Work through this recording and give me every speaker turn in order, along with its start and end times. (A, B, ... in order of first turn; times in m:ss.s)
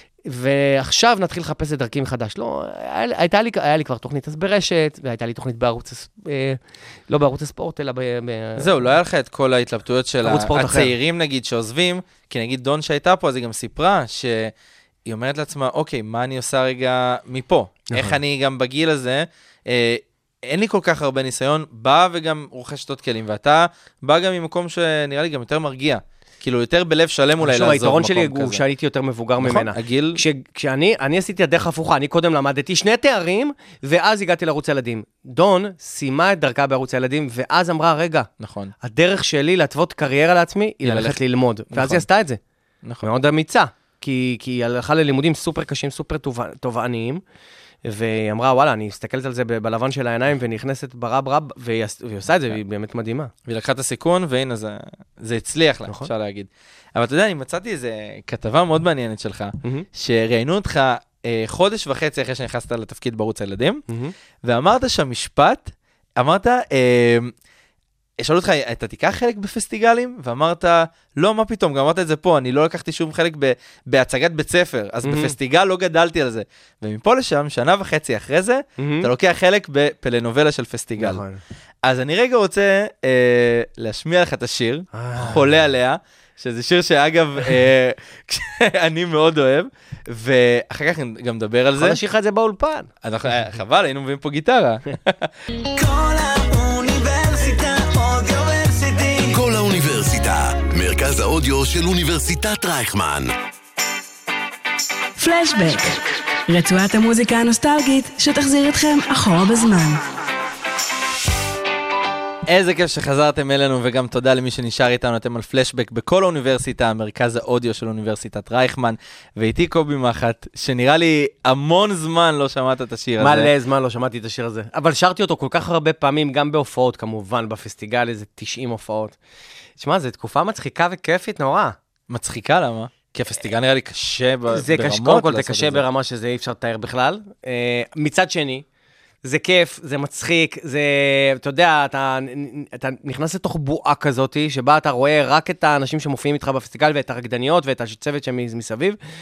0:00.3-0:08.7 A
0:08.6-0:14.5 B
0:10.2-0:10.9 A
0:15.0-0:28.6 B
0:17.9-0:18.2 A
0:27.4-0:38.3 A
0:29.4-0:30.2 B
0:38.4-0:38.7 B
0:38.8-0:42.4 A
0:40.8-0:41.2 B
0:41.7-0:42.0 B
0:43.0-0:47.2 A
0:47.8-0:53.3 A
0:53.5-1:03.8 B
1:03.9-1:04.1 A
1:04.4-1:07.3 B
1:08.2-1:21.2 B
1:15.0-1:15.3 A
1:18.8-1:19.1 A
1:21.0-1:21.4 A
1:21.8-1:32.0 B
1:24.9-1:25.4 A
1:31.8-1:32.9 A
1:33.0-1:35.3 B
1:35.7-1:43.3 C
1:45.2-1:50.0 D
1:52.5-2:03.5 B
2:03.2-2:09.2 A
2:09.8-2:11.8 A
2:12.1-2:15.8 B
2:14.5-2:18.6 A
2:19.2-2:29.0 A